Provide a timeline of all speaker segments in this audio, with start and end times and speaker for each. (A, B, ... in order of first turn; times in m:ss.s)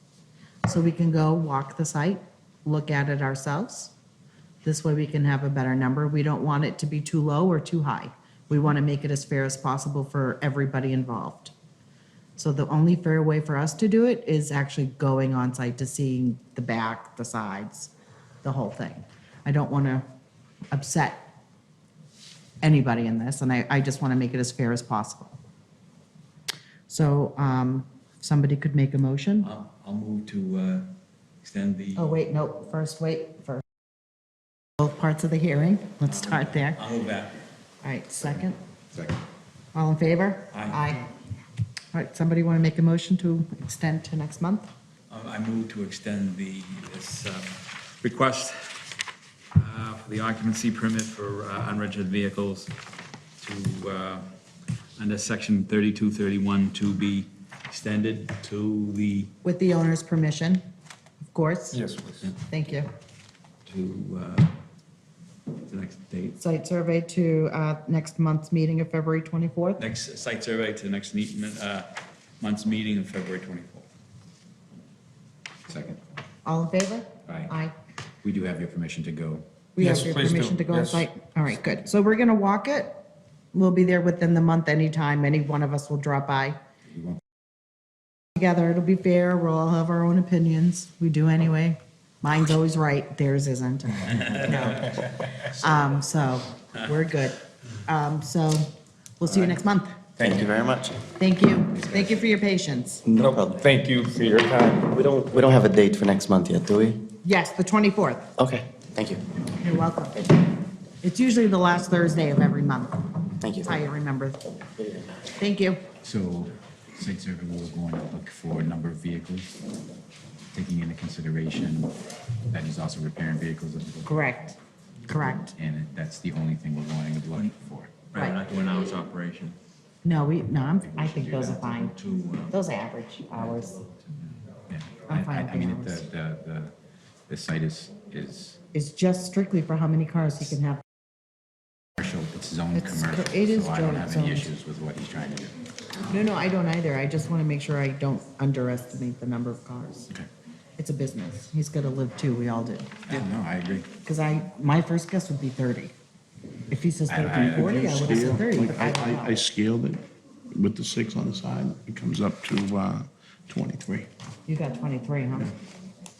0:00.6-0:03.9 A
0:04.6-0:11.5 A
0:12.4-0:17.9 A
0:18.4-0:20.0 A
0:20.7-0:21.3 A
0:22.6-0:25.4 A
0:26.9-0:29.5 A
0:29.4-0:32.2 B
0:31.9-0:33.6 A
0:34.8-0:36.8 A
0:36.7-0:37.4 B
0:37.8-0:38.6 A
0:39.7-0:41.1 A
0:40.5-0:40.8 B
0:41.9-0:44.7 A
0:45.1-0:48.9 B
0:49.5-0:52.7 B
0:53.4-0:54.3 B
0:55.0-0:59.3 B
0:59.4-1:00.6 A
1:01.2-1:01.8 A
1:01.7-1:02.3 C
1:02.4-1:02.9 A
1:03.6-1:04.5 B
1:05.6-1:06.4 B
1:06.4-1:09.8 A
1:09.8-1:13.9 B
1:15.7-1:16.0 D
1:16.4-1:17.7 A
1:17.2-1:17.5 D
1:18.2-1:19.4 D
1:19.8-1:26.6 A
1:19.8-1:21.1 C
1:28.4-1:40.0 A
1:40.2-1:40.5 C
1:40.2-1:41.0 E
1:41.2-1:43.0 A
1:41.9-1:42.2 E
1:43.0-1:43.6 E
1:43.2-1:44.9 C
1:44.9-1:47.1 E
1:47.2-1:48.3 A
1:48.4-1:49.3 E
1:49.6-1:50.2 A
1:51.0-1:53.0 A
1:53.4-1:53.8 E
1:53.6-1:54.4 A
1:55.4-1:55.9 A
1:56.0-1:59.6 D
2:00.5-2:02.0 D
2:02.5-2:04.1 D
2:04.0-2:04.5 A
2:05.1-2:05.5 A
2:05.5-2:08.0 D
2:08.1-2:09.6 B
2:10.0-2:12.0 A
2:10.8-2:11.6 D
2:11.6-2:12.5 B
2:12.5-2:13.8 A
2:13.3-2:14.2 B
2:14.7-2:16.7 D
2:15.1-2:16.0 A
2:17.3-2:18.6 D
2:18.7-2:20.8 A
2:22.0-2:25.6 D
2:22.7-2:24.5 A
2:26.0-2:30.1 A
2:30.8-2:32.9 A
2:33.1-2:33.9 D
2:34.0-2:35.9 A
2:36.7-2:39.4 A
2:37.1-2:38.0 D
2:37.6-2:44.1 F
2:44.5-2:45.5 A